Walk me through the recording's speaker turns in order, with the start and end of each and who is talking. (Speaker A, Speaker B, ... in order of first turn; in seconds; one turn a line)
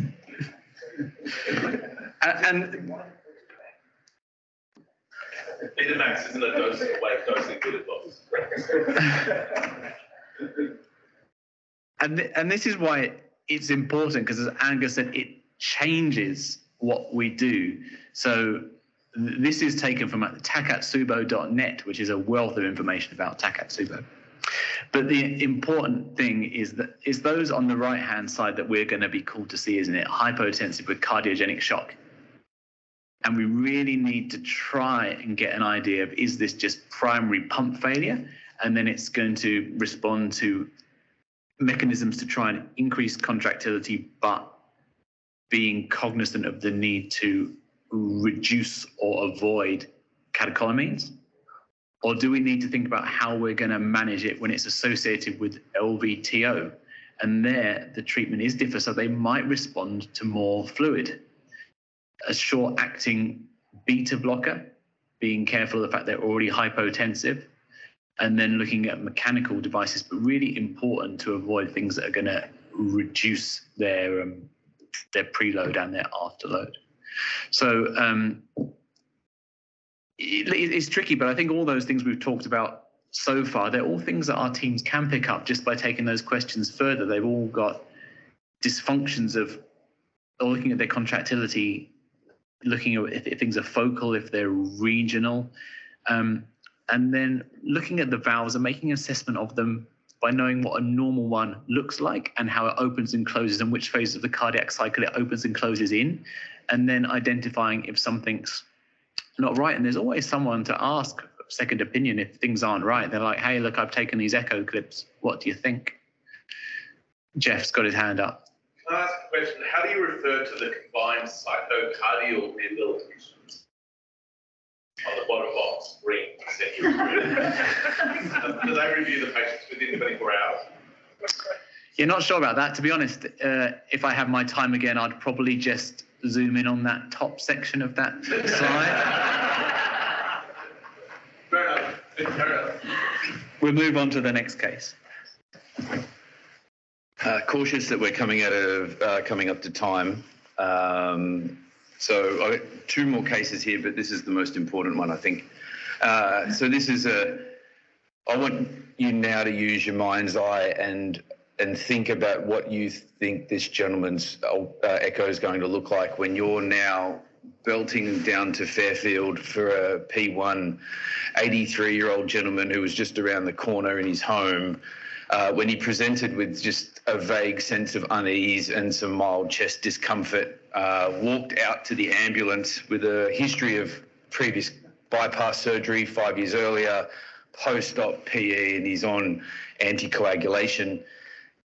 Speaker A: 2.3-2.9
Speaker B: 5.7-9.4
Speaker A: 12.0-24.1
Speaker A: 24.9-32.0
Speaker A: 33.2-40.7
Speaker A: 41.6-44.6
Speaker A: 45.5-51.2
Speaker A: 52.0-61.2
Speaker A: 62.2-67.5
Speaker A: 68.2-74.5
Speaker A: 75.1-76.8
Speaker A: 77.5-78.7
Speaker A: 80.2-87.9
Speaker A: 88.6-89.6
Speaker A: 90.4-91.9
Speaker A: 92.6-95.5
Speaker A: 96.1-108.7
Speaker A: 109.4-116.0
Speaker A: 117.4-118.5
Speaker B: 118.8-123.5
Speaker B: 125.0-130.7
Speaker A: 132.0-139.3
Speaker B: 141.5-142.8
Speaker A: 143.6-145.0
Speaker C: 147.2-155.5
Speaker C: 156.0-157.6
Speaker C: 158.3-170.8
Speaker C: 171.3-191.1